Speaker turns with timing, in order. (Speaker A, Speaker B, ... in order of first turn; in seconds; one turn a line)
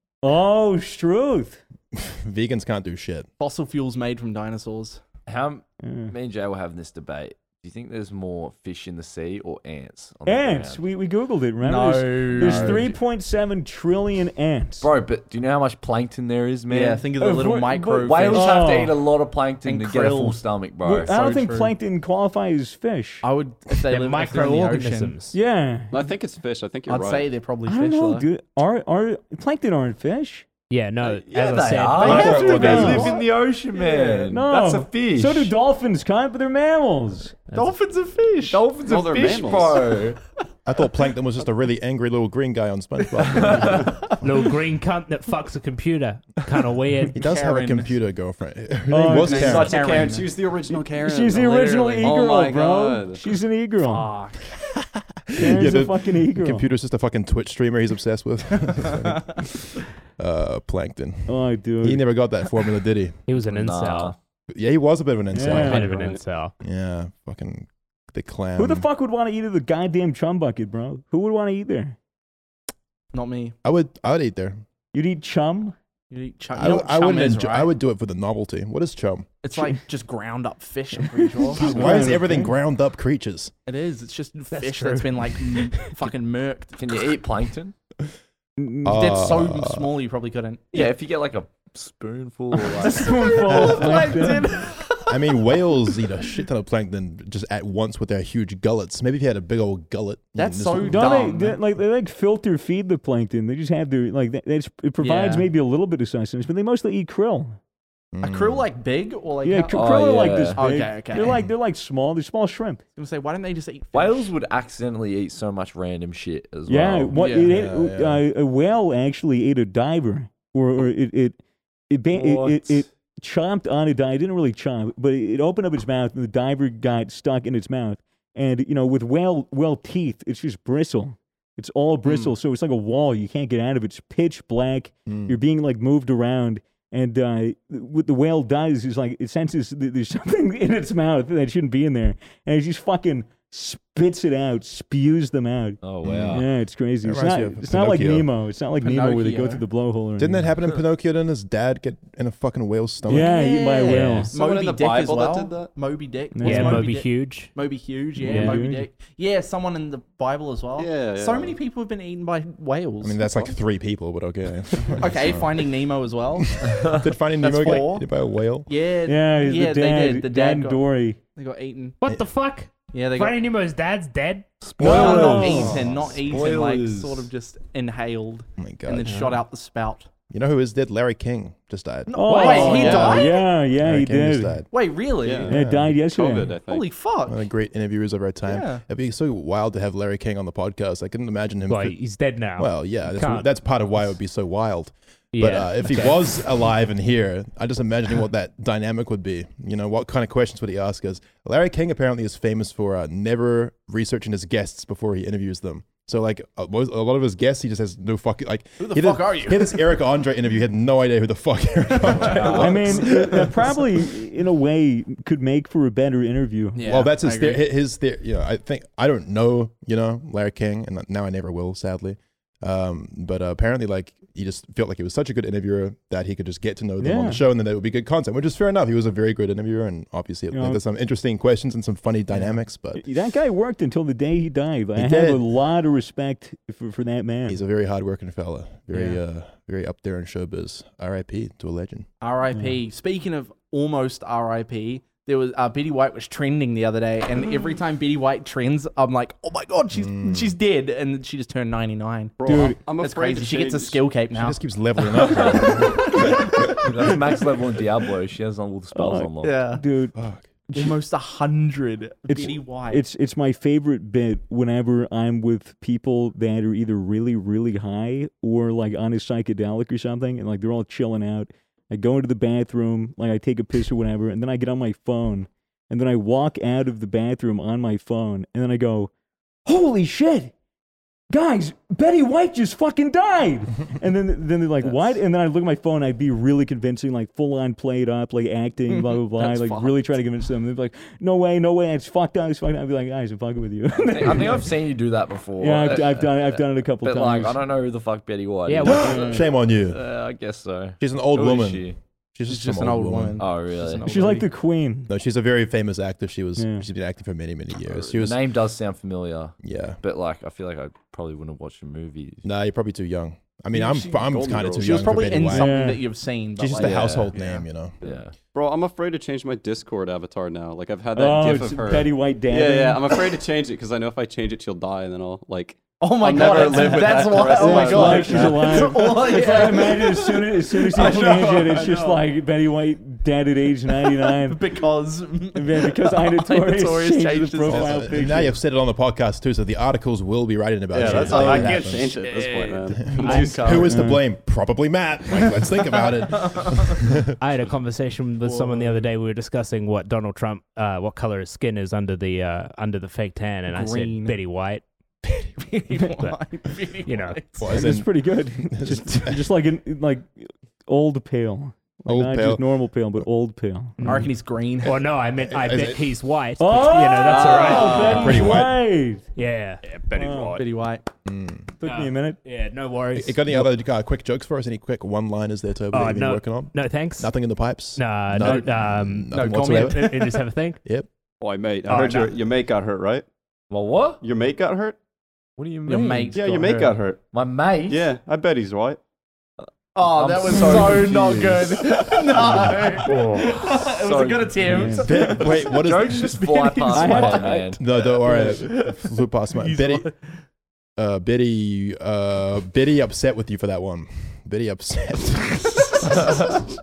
Speaker A: 0.2-1.6
Speaker B: 1.9-3.3
Speaker C: 3.4-5.0
Speaker D: 5.3-10.8
Speaker A: 5.8-6.1
Speaker A: 10.2-14.9
Speaker C: 11.6-12.9
Speaker D: 12.3-12.9
Speaker D: 14.8-21.1
Speaker C: 16.7-18.9
Speaker A: 17.2-18.9
Speaker C: 19.6-20.4
Speaker A: 20.8-23.2
Speaker C: 21.1-21.7
Speaker C: 23.2-25.1
Speaker E: 23.8-25.4
Speaker A: 25.3-25.9
Speaker F: 25.9-27.3
Speaker C: 26.9-28.3
Speaker A: 27.6-30.4
Speaker E: 30.7-33.0
Speaker D: 31.0-35.5
Speaker B: 32.0-33.1
Speaker A: 32.0-33.2
Speaker C: 32.1-33.2
Speaker C: 33.8-34.3
Speaker A: 34.3-37.4
Speaker C: 37.5-38.7
Speaker D: 38.5-40.2
Speaker F: 38.8-40.0
Speaker B: 40.6-44.1
Speaker C: 43.1-43.9
Speaker E: 44.2-47.2
Speaker B: 47.1-49.7
Speaker C: 47.1-47.9
Speaker A: 48.9-49.7
Speaker C: 49.0-50.4
Speaker F: 49.3-53.2
Speaker A: 51.0-54.1
Speaker E: 53.9-54.4
Speaker B: 55.3-63.2
Speaker A: 55.4-56.7
Speaker C: 58.8-59.2
Speaker A: 61.3-62.0
Speaker E: 63.3-64.1
Speaker D: 63.4-64.1
Speaker B: 64.5-65.9
Speaker A: 65.3-66.1
Speaker E: 65.4-66.5
Speaker F: 65.7-66.2
Speaker B: 66.6-68.9
Speaker A: 68.6-72.0
Speaker C: 73.1-73.5
Speaker B: 73.6-74.6
Speaker A: 74.9-75.8
Speaker C: 76.1-77.7
Speaker B: 76.5-79.3
Speaker C: 79.4-82.1
Speaker A: 81.0-82.5
Speaker B: 81.6-83.5
Speaker C: 83.7-87.1
Speaker E: 84.5-85.9
Speaker D: 86.8-87.7
Speaker A: 88.6-89.0
Speaker B: 88.8-89.9
Speaker C: 88.9-90.9
Speaker D: 90.7-93.8
Speaker C: 92.5-95.7
Speaker A: 92.8-94.6
Speaker B: 93.4-94.3
Speaker B: 95.0-101.1
Speaker C: 100.3-101.6
Speaker A: 100.8-107.6
Speaker C: 105.0-105.5
Speaker B: 108.1-108.7
Speaker C: 108.2-110.0
Speaker A: 109.4-112.8
Speaker D: 109.7-110.6
Speaker C: 110.5-111.4
Speaker C: 113.0-114.3
Speaker D: 113.9-117.2
Speaker A: 116.7-121.4
Speaker C: 117.1-117.5
Speaker B: 117.4-118.2
Speaker A: 121.9-150.5
Speaker D: 122.1-122.8
Speaker B: 135.1-135.3
Speaker D: 145.8-146.5
Speaker B: 146.0-146.4
Speaker B: 147.0-148.3
Speaker C: 148.8-149.6
Speaker B: 150.2-153.4
Speaker A: 153.1-154.3
Speaker C: 153.1-163.2
Speaker E: 153.8-154.3
Speaker F: 153.9-155.7
Speaker A: 156.3-156.9
Speaker E: 156.4-157.5
Speaker E: 158.2-158.6
Speaker A: 158.2-158.8
Speaker F: 160.8-161.6
Speaker B: 163.0-165.7
Speaker C: 165.0-168.1
Speaker B: 166.4-168.7
Speaker C: 168.7-172.0
Speaker A: 169.0-171.2
Speaker E: 172.0-174.6
Speaker C: 172.9-173.4
Speaker D: 174.6-177.3
Speaker A: 174.8-175.8
Speaker C: 174.8-180.1
Speaker B: 178.6-179.1
Speaker E: 179.1-179.4
Speaker B: 180.3-184.7
Speaker C: 182.1-183.4
Speaker A: 182.1-184.6
Speaker E: 182.2-183.2
Speaker C: 184.7-185.6
Speaker F: 185.2-186.9
Speaker A: 185.5-186.6
Speaker B: 185.5-185.9
Speaker C: 186.7-187.4
Speaker B: 187.2-192.0
Speaker C: 188.4-188.8
Speaker E: 191.7-193.5
Speaker B: 192.6-213.8
Speaker E: 195.3-196.3
Speaker C: 208.8-209.8
Speaker D: 212.2-213.1
Speaker C: 212.3-212.6
Speaker A: 212.5-216.9
Speaker C: 216.7-217.6
Speaker B: 216.8-233.0
Speaker A: 227.0-227.4
Speaker A: 230.5-230.8
Speaker A: 232.9-237.6
Speaker B: 234.9-235.4
Speaker B: 237.5-242.1
Speaker C: 238.9-239.2
Speaker C: 242.2-256.5
Speaker B: 249.9-250.5
Speaker F: 252.4-254.0
Speaker A: 252.4-252.8
Speaker B: 254.3-256.8
Speaker D: 255.4-255.7
Speaker D: 256.6-259.8
Speaker A: 258.9-260.2
Speaker C: 259.4-259.8
Speaker B: 260.1-260.4
Speaker A: 260.7-261.0
Speaker C: 260.7-263.0
Speaker A: 262.3-279.1
Speaker A: 279.6-280.5
Speaker A: 281.3-294.7
Speaker C: 288.9-290.2
Speaker D: 294.0-302.0
Speaker A: 295.6-297.6
Speaker E: 298.7-299.4
Speaker B: 298.8-300.1
Speaker A: 299.1-299.4
Speaker B: 301.0-303.4
Speaker C: 302.5-304.5
Speaker D: 303.4-304.1
Speaker A: 304.0-305.1
Speaker B: 305.1-308.4
Speaker A: 306.6-306.8
Speaker D: 307.9-312.4
Speaker B: 309.6-310.0
Speaker B: 312.4-315.8
Speaker C: 313.7-317.6
Speaker F: 314.2-315.3
Speaker A: 315.5-316.0
Speaker B: 316.6-317.9
Speaker D: 316.8-317.3
Speaker D: 318.0-318.3
Speaker F: 318.0-329.5
Speaker A: 321.1-323.2
Speaker C: 326.0-332.2
Speaker A: 327.4-334.8
Speaker C: 334.0-338.0
Speaker A: 335.5-338.6
Speaker B: 337.6-342.1
Speaker F: 340.9-344.0
Speaker C: 341.1-343.9
Speaker B: 342.9-347.3
Speaker E: 343.1-343.6
Speaker A: 343.9-344.2
Speaker C: 346.0-346.7
Speaker E: 347.4-354.8
Speaker C: 348.4-349.0
Speaker C: 353.7-354.4
Speaker C: 355.2-357.8
Speaker E: 357.0-357.4
Speaker B: 357.6-359.4
Speaker A: 357.7-364.2
Speaker B: 362.1-362.7
Speaker E: 364.0-364.3
Speaker C: 364.0-365.0
Speaker E: 364.8-368.2
Speaker B: 365.4-366.0
Speaker A: 366.6-369.3
Speaker F: 367.2-368.4
Speaker B: 367.8-368.7
Speaker E: 369.4-369.8
Speaker F: 369.8-370.7
Speaker A: 370.1-370.6
Speaker C: 370.6-371.1
Speaker B: 371.2-371.7
Speaker A: 371.8-372.4
Speaker E: 371.8-373.6
Speaker B: 373.1-381.1
Speaker E: 375.9-380.8
Speaker C: 379.3-380.3
Speaker F: 381.4-383.2
Speaker E: 381.9-382.3
Speaker D: 383.7-384.2
Speaker F: 384.2-385.0
Speaker D: 385.6-386.4
Speaker C: 385.9-387.0
Speaker F: 386.3-387.2
Speaker D: 387.3-388.0
Speaker F: 387.9-389.0
Speaker C: 389.9-397.7
Speaker D: 390.0-397.8
Speaker E: 393.0-393.5
Speaker A: 394.6-395.2
Speaker B: 395.1-396.4
Speaker A: 396.9-397.8
Speaker B: 397.8-400.1
Speaker C: 398.2-400.3
Speaker B: 401.0-406.6